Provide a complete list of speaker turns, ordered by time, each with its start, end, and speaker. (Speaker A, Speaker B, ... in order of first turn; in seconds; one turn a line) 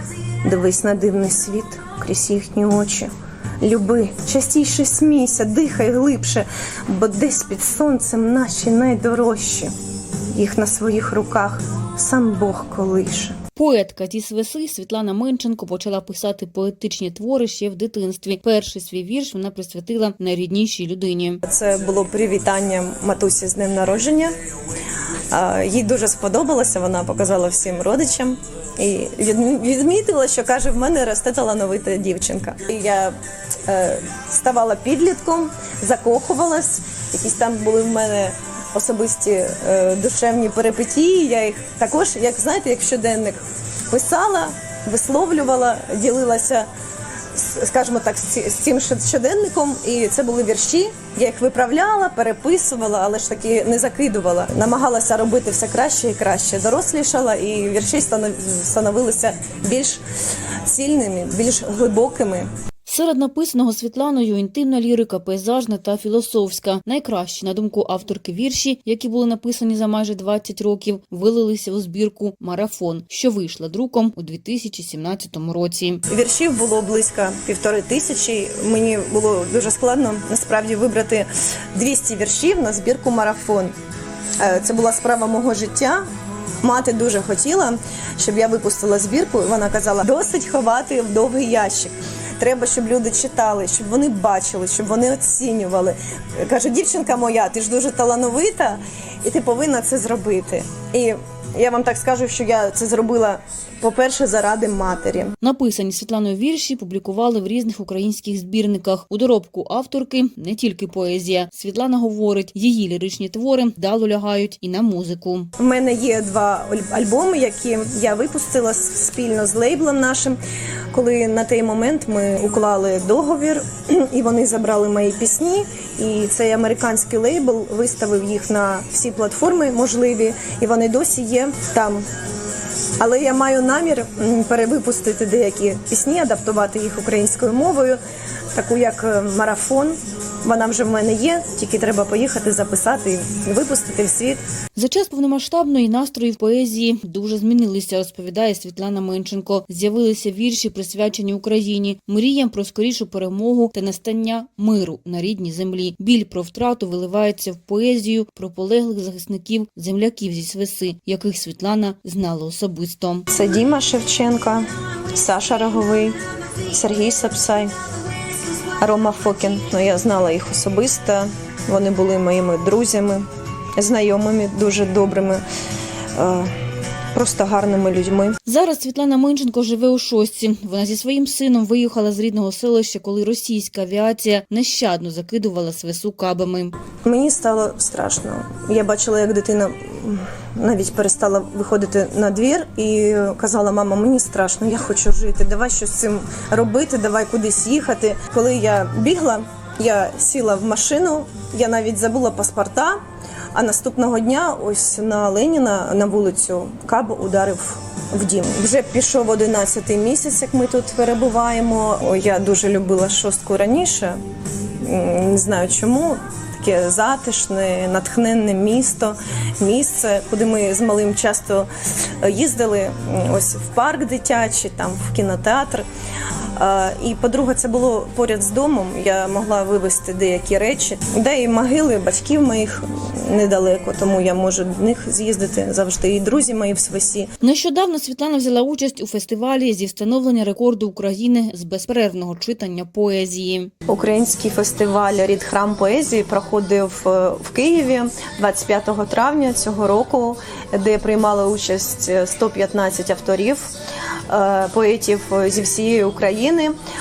Speaker A: 0.4-3.1
Speaker A: 3.6-9.7
Speaker A: 10.3-13.3
Speaker B: 13.5-21.4
Speaker A: 21.4-24.3
Speaker A: 25.3-33.1
Speaker A: 33.7-46.7
Speaker A: 47.3-60.0
Speaker A: 60.6-62.5
Speaker B: 62.9-76.0
Speaker A: 76.1-83.7
Speaker A: 84.4-86.0
Speaker A: 86.6-105.3
Speaker B: 105.4-115.5
Speaker A: 115.6-120.4
Speaker A: 120.9-132.0
Speaker A: 133.0-138.0
Speaker A: 138.5-144.4
Speaker B: 144.8-163.3
Speaker A: 163.3-167.7
Speaker A: 168.8-173.2
Speaker A: 173.8-175.4
Speaker A: 176.1-176.5
Speaker A: 177.1-178.4
Speaker B: 178.4-186.8
Speaker A: 187.0-203.0
Speaker A: 203.5-214.2
Speaker A: 214.8-221.7
Speaker A: 222.2-225.8
Speaker A: 226.6-237.3
Speaker B: 237.4-243.7
Speaker A: 243.9-253.7
Speaker A: 254.3-256.7